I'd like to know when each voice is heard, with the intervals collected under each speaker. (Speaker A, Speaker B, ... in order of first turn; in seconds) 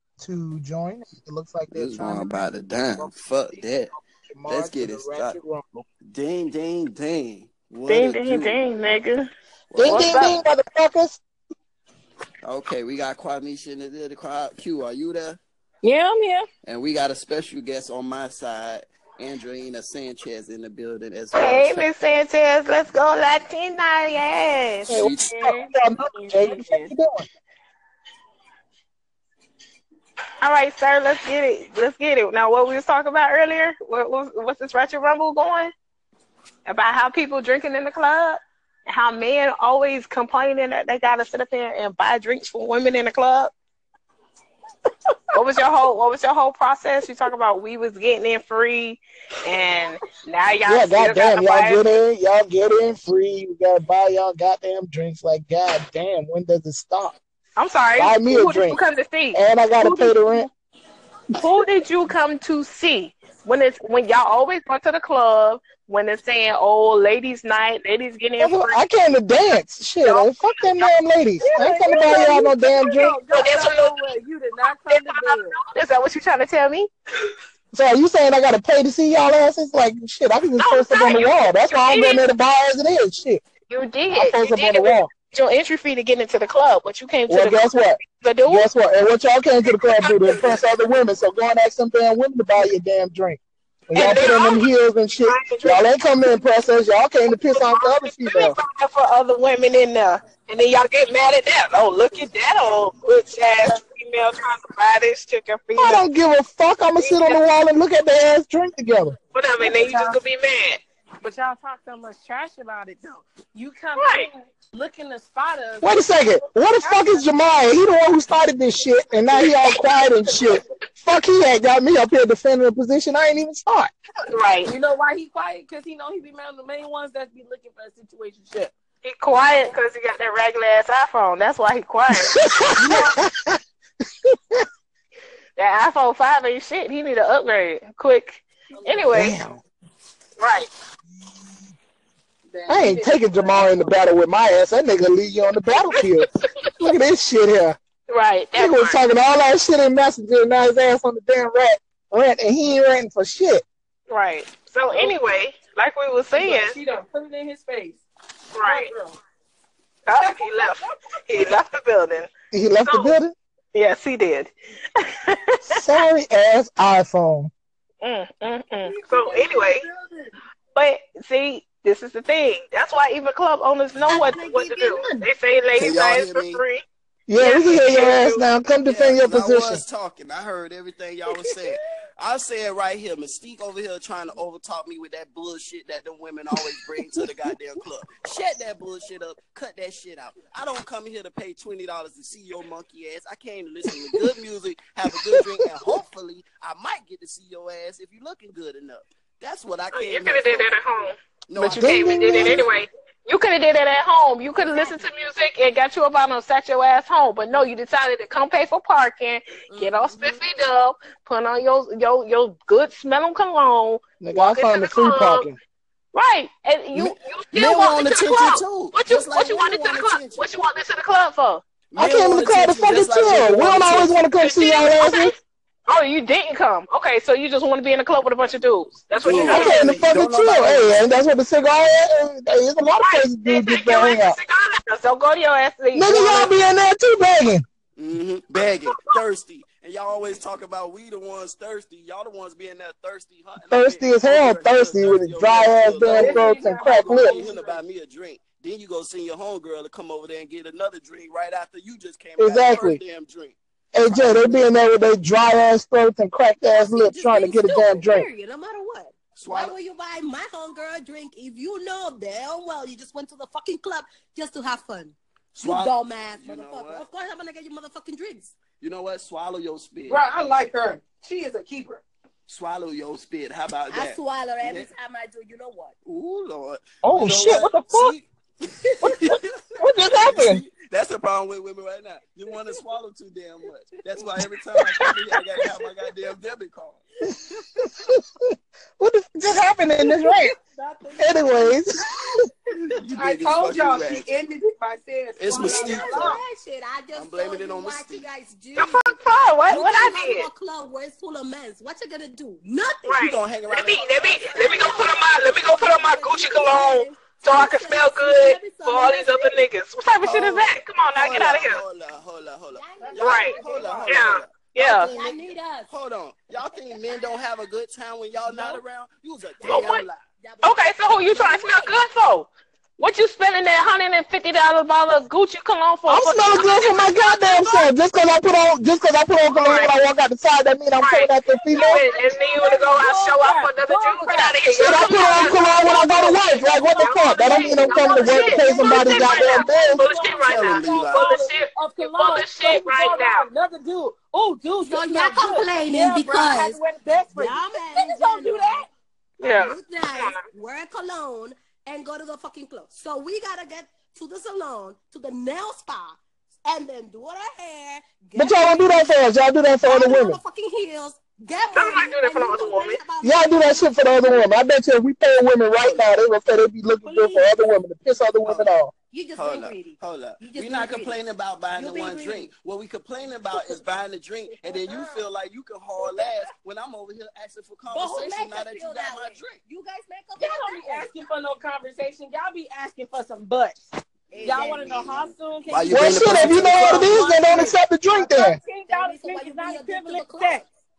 Speaker A: 0.2-3.6, 4.3-5.8, 9.8-11.2, 24.9-27.2, 50.6-57.2, 58.0-58.8, 59.3-60.5, 68.4-73.2, 77.7-83.4, 84.1-85.1, 87.3-98.6, 105.7-109.1, 115.8-123.9, 132.1-133.6, 134.2-134.6, 139.1-139.6, 142.7-146.3, 146.8-147.8, 148.5-153.6, 162.5-163.3, 165.7-167.5, 177.3-179.8, 201.6-202.7, 214.2-215.6, 221.9-225.3, 229.3-234.4, 235.9-237.7, 243.7-247.4, 252.4-253.0, 253.9-258.3, 277.0-278.1, 279.0-280.6, 287.8-288.2, 289.0-290.5, 291.2-292.0, 326.1-332.0, 334.7-340.0, 358.4-360.4, 363.2-368.9, 385.9-388.6
Speaker B: 1.7-3.9, 4.5-5.4, 6.0-8.6, 9.7-10.2, 12.4-15.4, 16.6-21.9, 24.9-25.3, 175.7-176.6, 178.8-200.7, 201.5-201.9, 216.9-220.5, 221.9-224.2, 229.2-231.2, 237.9-253.6, 254.1-254.6, 259.4-259.8, 265.5-267.1, 268.8-270.2, 272.5-274.9, 276.0-287.0, 292.8-294.3, 295.4-296.3, 297.1-298.3, 303.2-305.5, 310.2-314.5, 315.1-320.2, 340.4-341.3, 365.8-366.1, 368.4-368.7, 369.3-379.6, 384.4-387.2
Speaker C: 7.9-9.3, 9.8-10.4, 21.3-25.1, 30.4-35.7, 36.6-43.5, 45.3-51.9, 57.5-59.4, 61.3-68.8, 70.0-72.1, 73.3-74.1, 74.8-76.9, 80.6-82.2, 83.7-88.7, 89.7-90.6, 93.9-94.7, 95.2-95.9, 97.3-106.0, 107.0-107.4, 109.3-110.8, 113.9-114.3, 124.3-124.7, 129.0-132.4, 135.6-139.3, 140.4-140.7, 148.1-149.0, 154.1-156.8, 158.5-158.9, 160.1-162.3, 162.8-163.1, 163.7-165.8, 168.0-169.8, 170.7-176.8, 177.4-178.4, 199.9-215.5, 216.1-221.6, 224.3-230.0, 233.0-236.5, 238.9-239.1, 298.8-300.5, 303.0-311.8, 313.2-315.1, 319.6-320.0, 320.6-327.9, 329.5-329.9, 331.0-343.5, 349.4-350.4, 361.7-363.0
Speaker D: 15.8-16.5, 25.3-26.9, 59.9-60.4, 71.5-75.6, 109.6-110.2, 111.2-116.0, 116.8-117.4, 124.6-128.7, 138.7-139.2, 142.5-144.0, 154.9-155.2, 156.3-158.0, 158.6-159.1, 160.2-160.8, 168.8-170.3, 246.1-247.8, 270.1-272.0, 290.0-291.8, 293.1-296.4, 313.0-313.9, 331.9-335.6, 337.9-348.9, 380.4-383.8, 384.4-386.0, 386.6-390.7
Speaker E: 174.1-175.3, 204.6-205.0, 209.7-210.4, 256.7-268.5, 273.9-275.9, 295.5-303.3, 304.5-309.6, 312.7-315.9, 316.9-317.5, 318.4-318.8, 319.6-322.0, 344.8-346.8, 347.3-348.9, 349.4-359.1, 359.9-363.9, 367.0-367.6, 369.1-371.2, 371.7-372.5, 373.5-373.8, 374.5-375.3, 376.1-376.4, 377.9-381.1, 384.3-385.1, 388.9-390.6